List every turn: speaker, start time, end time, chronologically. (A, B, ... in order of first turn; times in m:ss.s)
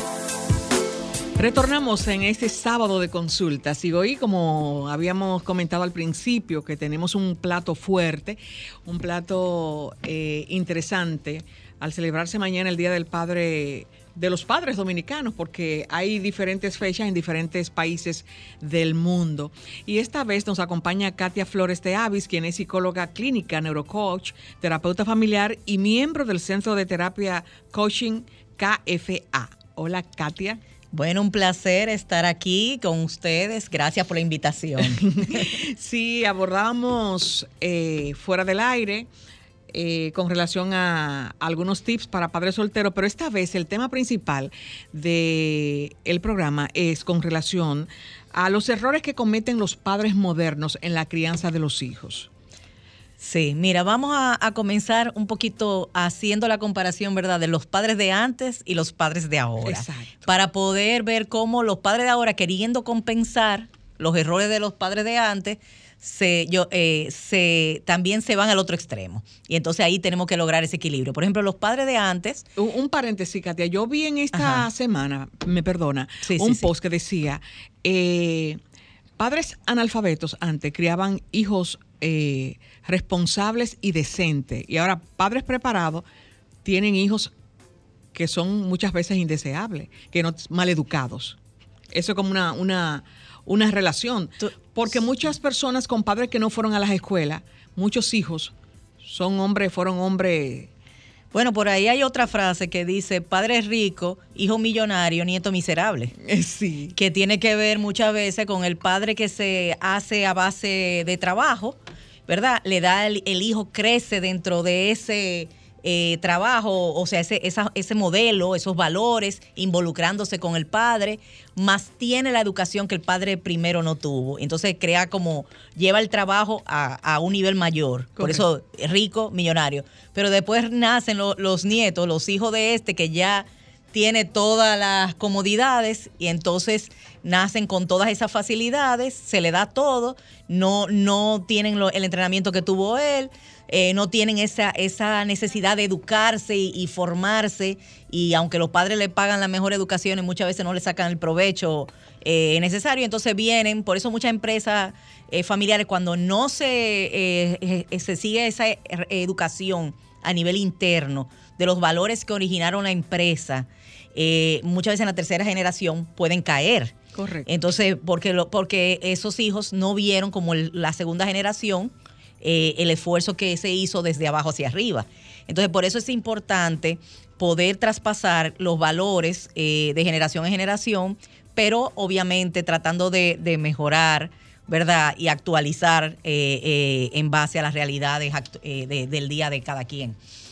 0:01.4-0:30.6 A
0:30.9-0:35.5 B
0:34.8-0:39.1 A
0:39.7-0:52.3 A
0:53.2-1:12.5 B
0:59.6-1:00.1 A
1:12.6-1:18.6 A
1:14.3-1:14.7 B
1:16.2-1:16.7 B
1:19.2-1:26.1 A
1:26.6-1:27.3 A
1:28.1-1:31.4 A
1:31.9-1:40.7 A
1:41.3-1:46.1 B
1:46.2-1:47.0 A
1:46.9-2:47.0 B
2:47.1-2:47.5 A
2:47.5-3:10.2 B